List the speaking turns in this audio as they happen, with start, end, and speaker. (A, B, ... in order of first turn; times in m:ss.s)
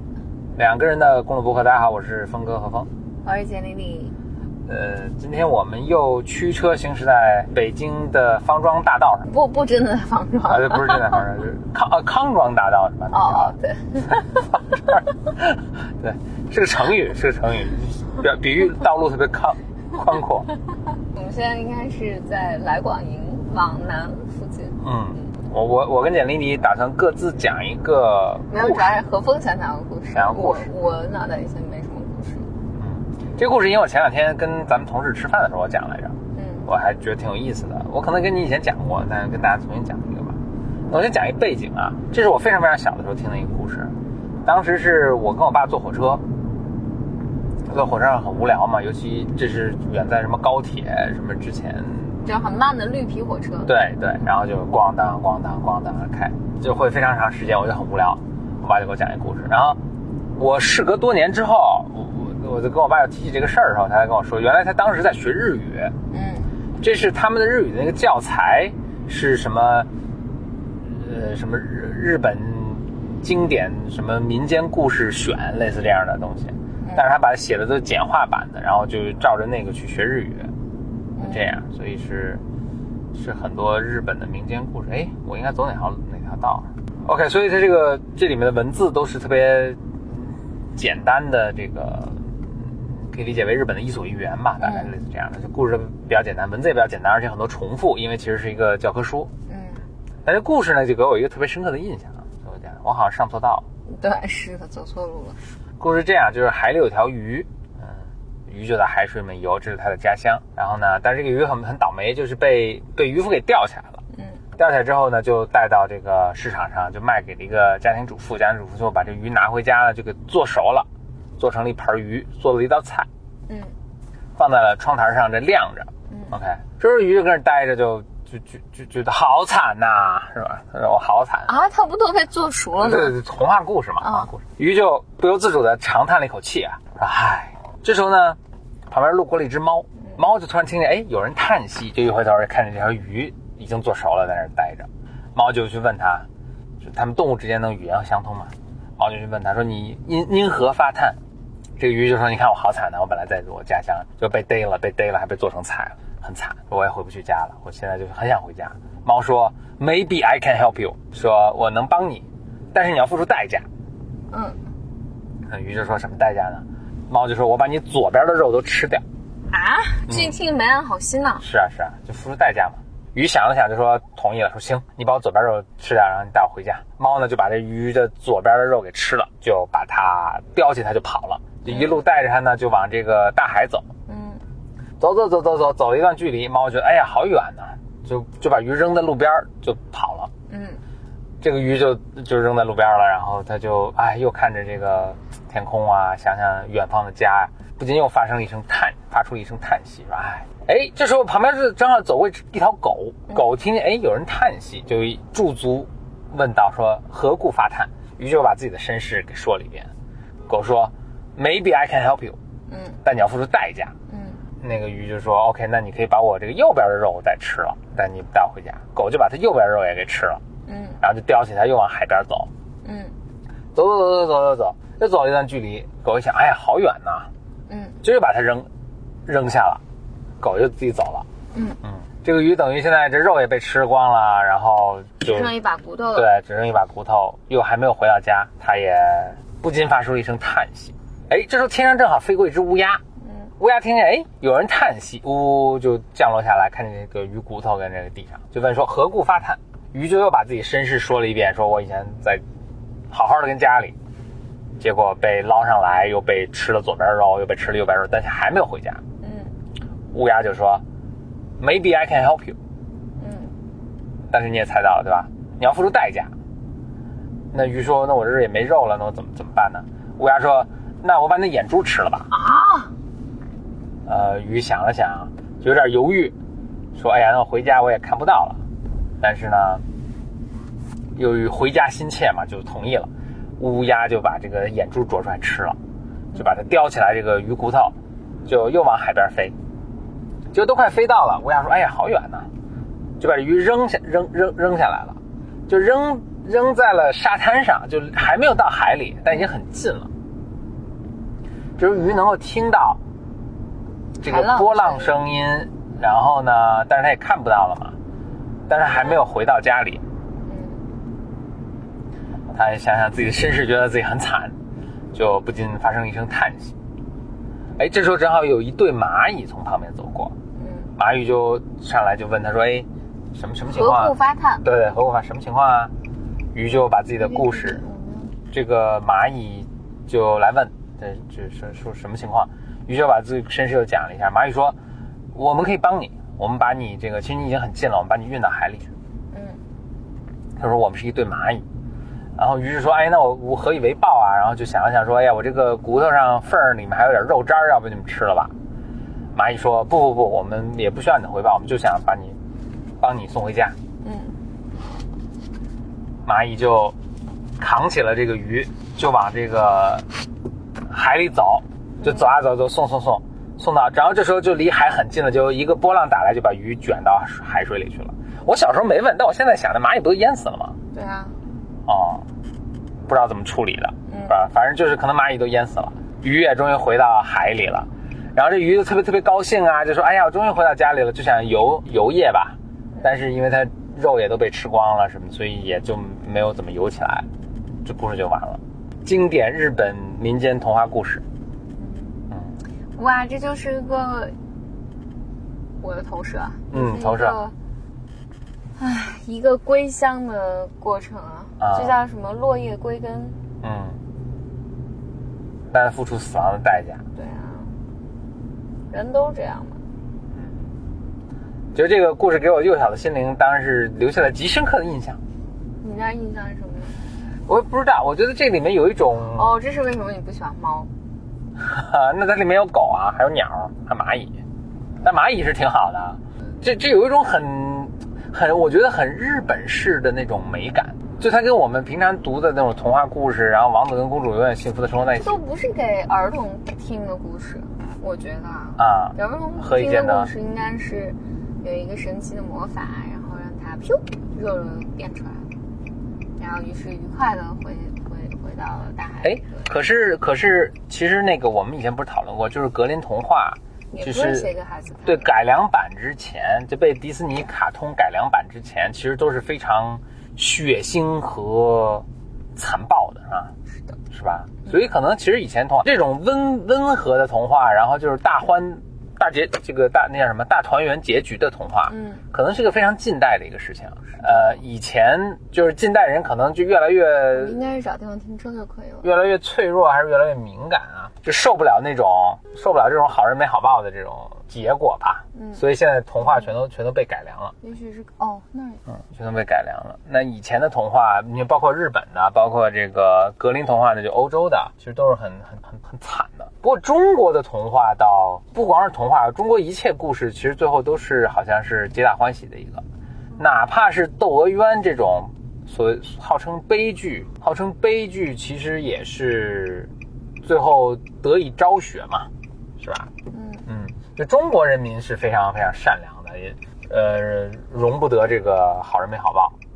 0:00.6-0:02.9 A
0:03.2-0:04.1 B
0:04.6-0:09.3 A
0:09.2-0:11.2 B
0:10.5-0:13.6 A
0:13.1-0:14.6 B
0:14.9-0:20.5 A
0:21.1-0:25.3 B
0:24.8-0:28.9 A
0:28.5-0:32.5 B
0:30.1-0:30.7 A
0:32.8-0:40.4 A
0:36.3-0:36.7 B
0:40.9-0:43.9 A
0:44.4-0:46.2 A
0:47.6-0:52.1 A
0:52.2-0:53.7 B
0:53.6-0:59.8 A
1:00.4-1:05.9 A
1:06.1-1:06.5 B
1:06.8-1:09.9 A
1:10.8-1:20.5 A
1:16.8-1:17.1 B
1:21.1-1:21.5 B
1:21.2-1:22.4 A
1:23.1-1:29.8 A
1:30.8-1:39.3 A
1:34.6-1:34.9 B
1:39.5-1:39.8 B
1:40.2-1:43.6 A
1:43.8-1:45.5 B
1:45.8-1:47.9 A
1:48.5-1:54.0 A
1:54.1-1:54.4 B
1:54.6-2:00.9 A
2:01.4-2:03.1 A
2:03.5-2:03.7 B
2:04.4-2:11.5 A
2:06.1-2:06.3 B
2:11.4-2:13.2 B
2:12.8-2:18.4 A
2:14.0-2:14.3 B
2:18.9-2:26.2 A
2:26.8-2:31.2 A
2:31.8-2:43.6 A
2:44.3-2:44.6 B
2:45.4-2:49.0 A
2:49.5-2:51.4 B
2:50.1-2:50.4 A
2:51.4-3:03.9 A
3:01.7-3:02.0 B
3:04.0-3:04.4 B
3:05.0-3:10.3 A
3:10.5-3:10.8 B
3:11.4-3:29.9 A
3:30.5-3:32.4 A
3:32.7-3:33.0 B
3:33.0-3:33.9 A
3:34.1-3:34.4 B
3:34.6-3:40.4 A
3:40.6-3:41.0 B
3:41.0-3:42.5 A
3:42.8-3:43.1 B
3:43.7-3:47.3 A
3:47.7-3:48.0 B
3:48.0-3:48.7 A
3:49.2-3:49.8 A
3:50.4-3:51.2 A
3:51.5-3:51.8 B
3:51.8-3:55.5 A
3:55.2-3:56.3 B
3:56.1-4:03.0 A
4:03.2-4:03.5 B
4:03.6-4:12.4 A
4:13.1-4:14.0 A
4:14.8-4:19.0 A
4:19.2-4:19.5 B
4:20.1-4:20.8 A
4:21.6-4:22.6 A
4:23.2-4:23.5 B
4:24.3-4:26.3 A
4:27.5-4:32.3 A
4:32.3-4:32.9 B
4:34.1-4:36.3 A
4:36.9-4:38.6 A
4:39.2-4:39.8 A
4:41.2-4:45.8 A
4:46.3-4:47.9 A
4:48.4-4:49.5 A
4:50.5-4:52.5 A
4:53.2-4:55.2 A
4:55.7-5:00.1 A
5:01.8-5:03.0 A
5:04.2-5:05.2 B
5:04.2-5:07.9 A
5:08.7-5:10.0 A
5:10.4-5:10.9 B
5:12.5-5:14.5 A
5:15.1-5:16.7 A
5:17.8-5:20.3 A
5:20.6-5:20.9 B
5:21.0-5:25.9 A
5:23.7-5:24.6 B
5:26.5-5:27.8 A
5:27.2-5:28.3 B
5:28.5-5:34.8 A
5:35.3-5:38.9 A
5:39.3-5:39.6 B
5:40.6-5:41.6 A
5:42.4-5:48.5 A
5:49.3-5:52.4 A
5:53.0-5:53.7 A
5:54.0-5:54.4 B
5:56.2-5:56.9 A
5:57.6-6:00.0 A
6:00.9-6:10.8 A
6:02.0-6:02.3 B
6:10.9-6:11.4 B
6:11.8-6:12.2 A
6:13.1-6:27.3 A
6:14.0-6:14.3 B
6:27.8-6:31.2 A
6:31.8-6:32.2 B
6:32.3-6:32.5 A
6:33.0-6:34.3 B
6:35.8-6:37.5 B
6:36.7-6:37.4 A
6:38.8-6:43.4 B
6:41.6-6:42.0 A
6:43.6-6:44.0 A
6:45.7-6:47.0 A
6:47.1-6:47.8 B
6:48.9-6:49.8 B
6:51.7-6:55.2 A
6:55.8-6:57.0 B
6:57.5-6:59.6 A
6:59.3-7:00.9 B
7:01.6-7:04.4 A
7:05.0-7:15.4 A
7:15.0-7:25.5 B
7:18.8-7:20.3 A
7:26.4-7:29.7 B
7:29.2-7:34.5 A
7:33.9-7:35.3 B
7:35.0-7:43.5 A
7:44.1-7:57.6 A
7:51.9-7:52.2 B
7:54.2-7:54.6 B
7:57.3-7:59.1 B
7:59.0-8:07.5 A
8:05.3-8:05.6 B
8:06.2-8:06.5 B
8:07.6-8:08.8 B
8:09.0-8:22.8 A
8:23.4-8:29.9 A
8:30.4-8:33.1 A
8:33.3-8:33.6 B
8:33.7-8:39.5 A